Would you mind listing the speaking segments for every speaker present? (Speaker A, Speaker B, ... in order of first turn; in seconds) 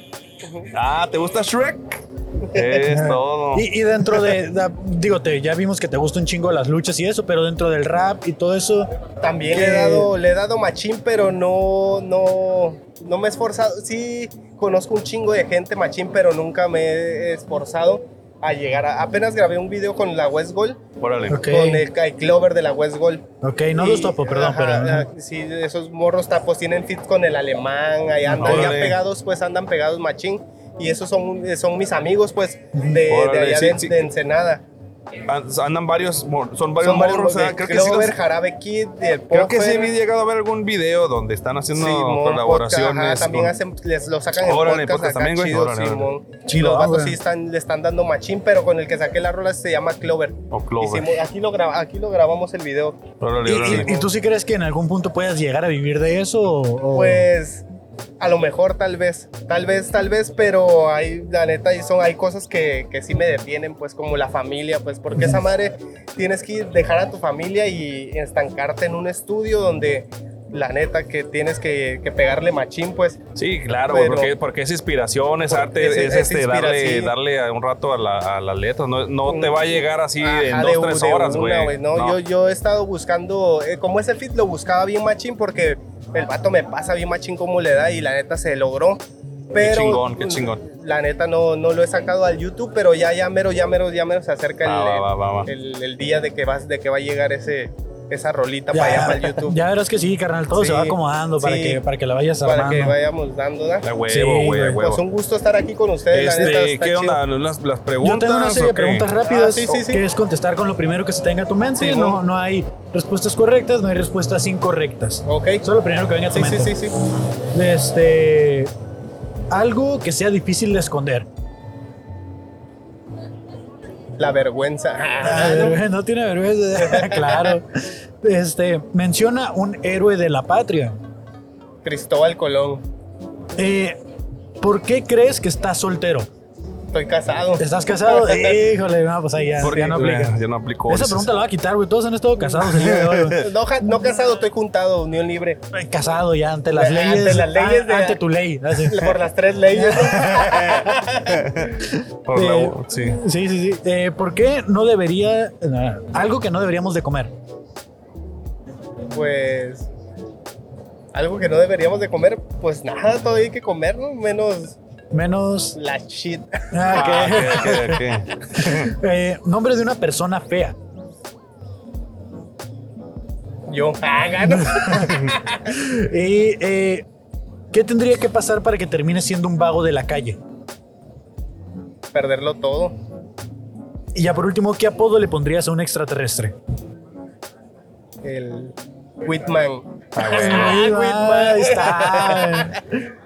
Speaker A: 0.4-0.7, 2.5-2.8, 9.2-20.8, 21.4-34.6, 36.8-39.9, 41.7-53.1, 53.6-54.0, 56.9-57.6, 58.2-73.2, 73.9-74.3, 75.5-77.1, 79.2-99.6, 100.5-101.8, 102.4-103.9, 104.8-107.2, 109.2-110.0, 111.8-112.2, 115.2-115.6, 116.3-116.9, 124.2-125.8, 126.8-127.6, 131.8-132.8, 136.9-138.7, 139.7-140.0, 143.4-145.6, 146.7-148.2, 148.9-151.4, 159.1-159.9, 161.1-164.8, 165.7-167.8, 173.7-175.7, 182.1-182.9, 188.2-192.8
Speaker B: 0.7-4.3, 21.0-21.5, 28.4-29.0, 33.1-34.0, 35.2-38.1, 39.3-43.6, 44.4-46.1, 50.5-51.0, 53.2-54.0, 73.3-82.2, 89.5-90.6, 94.6-95.5, 103.8-105.0, 106.1-109.1, 139.6-141.3, 142.7-143.4, 150.6-153.2, 166.9-168.9, 190.2-190.8
Speaker C: 2.8-8.9, 9.5-10.1, 21.3-21.8, 23.4-25.1, 28.2-28.8, 46.5-47.2, 53.5-57.3, 98.7-103.0, 104.1-104.8, 108.0-116.9, 117.5-118.7, 119.5-121.3, 125.2-127.7, 128.2-131.0, 133.6-134.0, 134.6-136.3, 137.6-143.4, 145.7-149.0, 149.7-150.9, 151.9-157.3, 165.1-165.8, 166.7-170.8, 174.5-177.1, 177.7-180.4, 184.1-186.6, 190.2-192.8